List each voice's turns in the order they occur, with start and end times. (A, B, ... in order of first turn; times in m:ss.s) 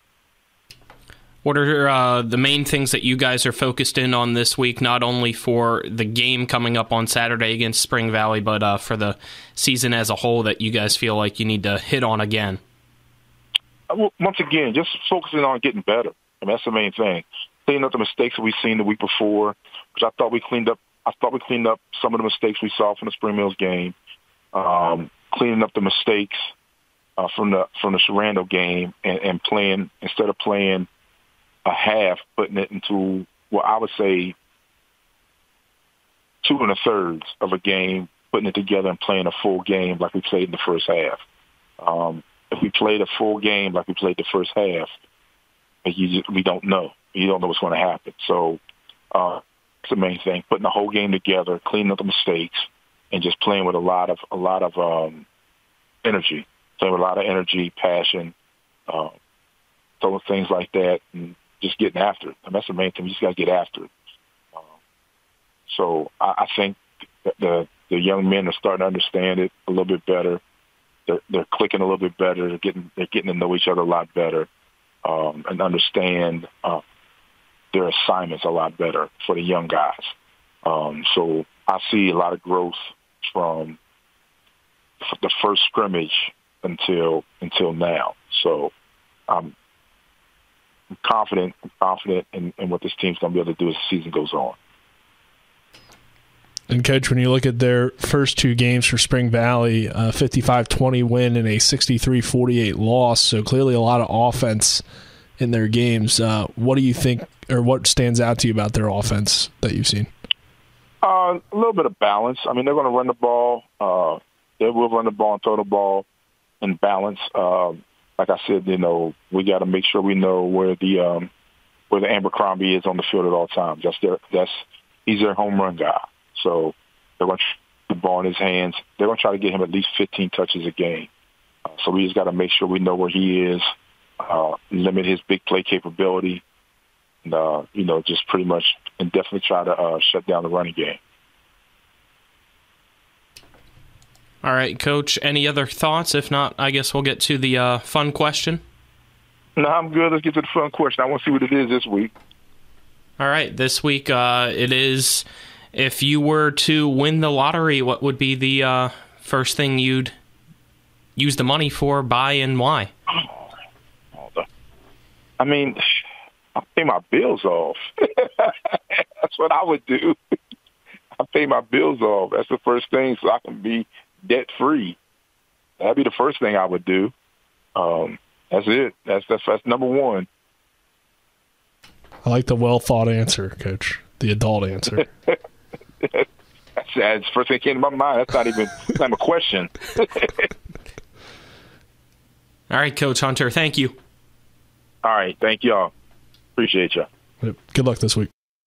0:01.4-0:12.6 A
0:13.9-0:24.0 B
0:24.5-0:26.5 B
0:27.2-0:30.9 B
0:31.6-0:34.4 B
0:36.4-0:41.2 B
0:41.8-0:44.9 B
0:45.8-0:48.6 B
0:49.1-0:55.3 B
0:56.0-0:58.3 B
0:58.9-0:59.1 B
1:00.0-1:03.9 B
1:05.7-1:10.4 B
1:11.1-1:14.5 B
1:15.0-1:16.8 B
1:17.7-1:20.1 B
1:20.6-1:23.8 B
1:25.0-1:28.7 B
1:29.3-1:29.5 B
1:31.0-1:34.6 B
1:36.7-1:44.8 C
1:45.4-1:50.1 C
1:51.0-1:56.1 B
1:56.6-2:01.3 B
2:01.9-2:11.1 B
2:11.7-2:13.7 B
2:14.2-2:16.4 B
2:17.2-2:21.0 B
2:24.4-2:28.6 A
2:29.6-2:32.1 B
2:33.2-2:40.1 A
2:41.2-2:42.9 A
2:43.1-2:43.5 B
2:44.2-2:44.5 B
2:45.4-2:45.8 B
2:46.6-2:50.2 B
2:51.2-2:55.0 B
2:55.8-2:57.1 B
2:57.8-3:00.3 B
3:02.2-3:05.1 C
3:06.8-3:10.5 B
3:12.7-3:13.9 A
3:15.0-3:15.9 B
3:16.6-3:17.1 B
3:17.4-3:18.3 C